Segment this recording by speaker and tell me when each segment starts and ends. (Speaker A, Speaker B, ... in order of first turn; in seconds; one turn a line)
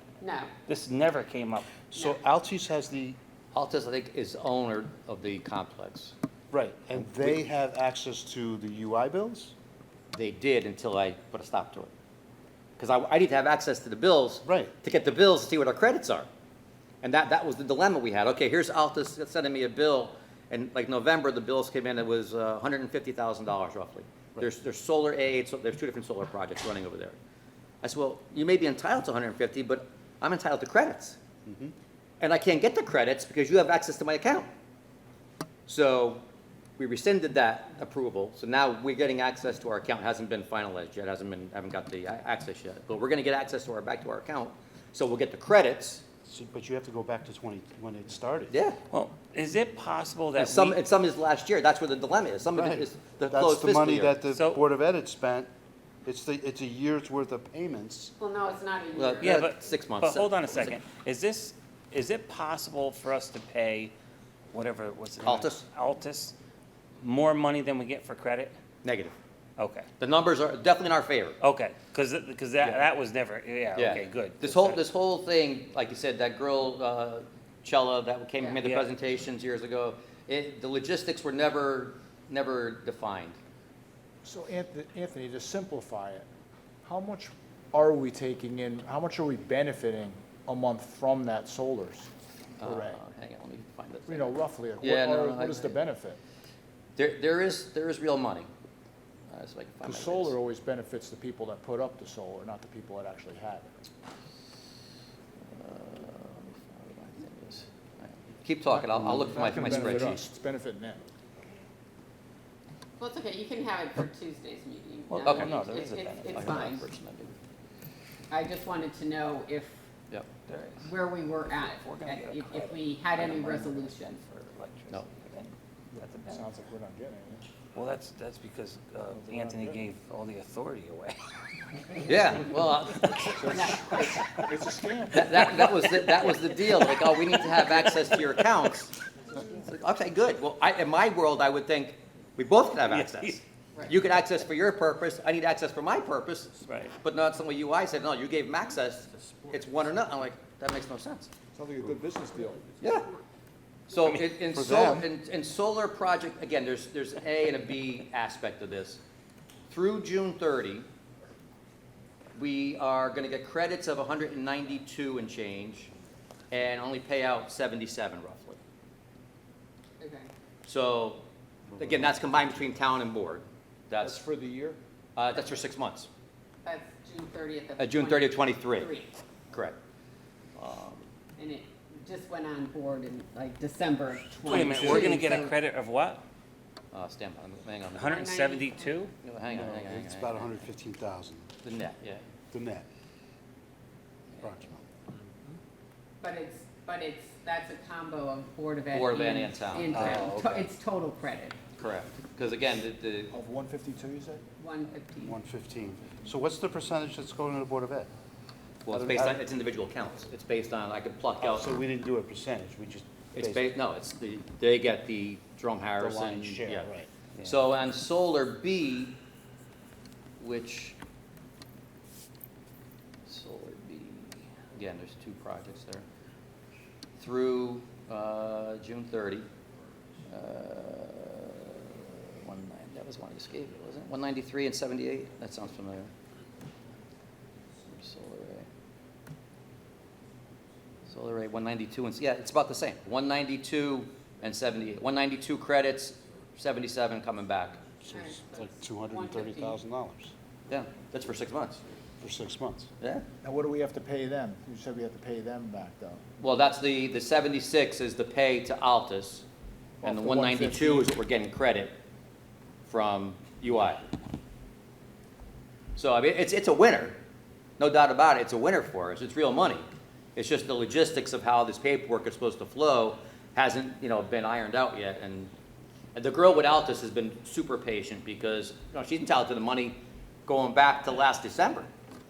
Speaker A: 0.2-0.5
Speaker B: 0.7-1.8
Speaker C: 1.8-3.2
Speaker D: 3.5-6.1
Speaker C: 6.5-9.5
Speaker D: 6.9-7.4
Speaker D: 10.1-11.9
Speaker D: 12.8-16.3
Speaker C: 14.4-14.7
Speaker D: 17.0-27.1
Speaker D: 27.8-31.2
Speaker C: 31.4-31.7
Speaker D: 32.2-34.5
Speaker D: 35.7-36.2
Speaker D: 36.8-46.0
Speaker C: 46.2-48.5
Speaker D: 48.5-48.8
Speaker B: 48.9-50.8
Speaker D: 50.4-54.2
Speaker C: 52.5-55.5
Speaker B: 54.3-54.6
Speaker C: 56.0-58.1
Speaker A: 58.2-59.5
Speaker D: 58.9-60.8
Speaker B: 59.2-63.9
Speaker B: 64.5-66.3
Speaker D: 65.2-65.6
Speaker B: 67.0-68.5
Speaker D: 68.8-69.2
Speaker B: 69.6-69.9
Speaker D: 70.0-71.4
Speaker B: 71.4-74.8
Speaker D: 73.7-83.4
Speaker B: 78.6-78.9
Speaker E: 84.2-86.2
Speaker E: 86.8-92.1
Speaker D: 92.6-95.8
Speaker E: 92.6-93.0
Speaker E: 94.1-96.2
Speaker D: 97.0-98.5
Speaker D: 99.3-100.4
Speaker E: 99.8-103.7
Speaker D: 105.4-110.2
Speaker E: 108.7-111.0
Speaker A: 113.0-116.9
Speaker B: 115.1-116.8
Speaker D: 115.2-115.5
Speaker D: 116.3-117.4
Speaker A: 118.3-119.8
Speaker B: 120.5-126.4
Speaker A: 120.8-124.2
Speaker E: 125.9-127.4
Speaker B: 127.7-132.0
Speaker E: 129.1-129.8
Speaker D: 132.0-133.6
Speaker B: 133.0-134.4
Speaker E: 133.4-135.8
Speaker A: 133.5-134.1
Speaker D: 135.1-151.3
Speaker B: 135.9-138.0
Speaker B: 142.9-143.4
Speaker B: 146.6-147.0
Speaker E: 151.5-152.7
Speaker D: 152.8-153.1
Speaker D: 153.9-159.0
Speaker C: 154.4-155.1
Speaker D: 159.7-160.8
Speaker D: 162.3-165.9
Speaker D: 166.5-168.6
Speaker A: 170.0-170.3
Speaker D: 170.6-171.2
Speaker D: 171.8-174.2
Speaker E: 174.0-174.8
Speaker D: 175.2-176.1
Speaker A: 176.6-179.1
Speaker D: 177.8-178.9
Speaker D: 179.5-179.8
Speaker D: 180.6-181.1
Speaker A: 181.4-185.6
Speaker C: 184.4-185.1
Speaker B: 184.4-186.2
Speaker D: 186.9-188.2
Speaker B: 187.9-189.1
Speaker A: 188.0-189.0
Speaker D: 189.2-190.7
Speaker C: 189.5-191.5
Speaker D: 191.6-192.2
Speaker C: 192.5-192.9
Speaker C: 194.4-194.8
Speaker A: 196.2-201.6
Speaker D: 198.9-200.2
Speaker B: 199.9-200.7
Speaker D: 201.8-203.3
Speaker E: 203.3-204.4
Speaker A: 204.6-205.4
Speaker C: 205.2-208.1
Speaker D: 208.8-211.7
Speaker C: 208.9-209.4
Speaker C: 211.4-213.7
Speaker D: 213.3-216.9
Speaker C: 216.0-217.1
Speaker D: 217.4-219.2
Speaker D: 220.4-221.0
Speaker D: 223.3-226.0
Speaker D: 227.2-229.5
Speaker D: 230.3-236.1
Speaker D: 237.9-238.7
Speaker D: 241.1-247.8
Speaker C: 248.0-250.3
Speaker A: 248.1-249.8
Speaker D: 250.7-251.8
Speaker C: 252.2-252.9
Speaker D: 253.0-253.2
Speaker E: 253.4-256.2
Speaker D: 256.4-259.4
Speaker E: 260.0-261.2
Speaker D: 260.0-261.9
Speaker D: 262.9-264.0
Speaker D: 265.9-267.2
Speaker D: 267.8-275.5
Speaker D: 276.1-281.9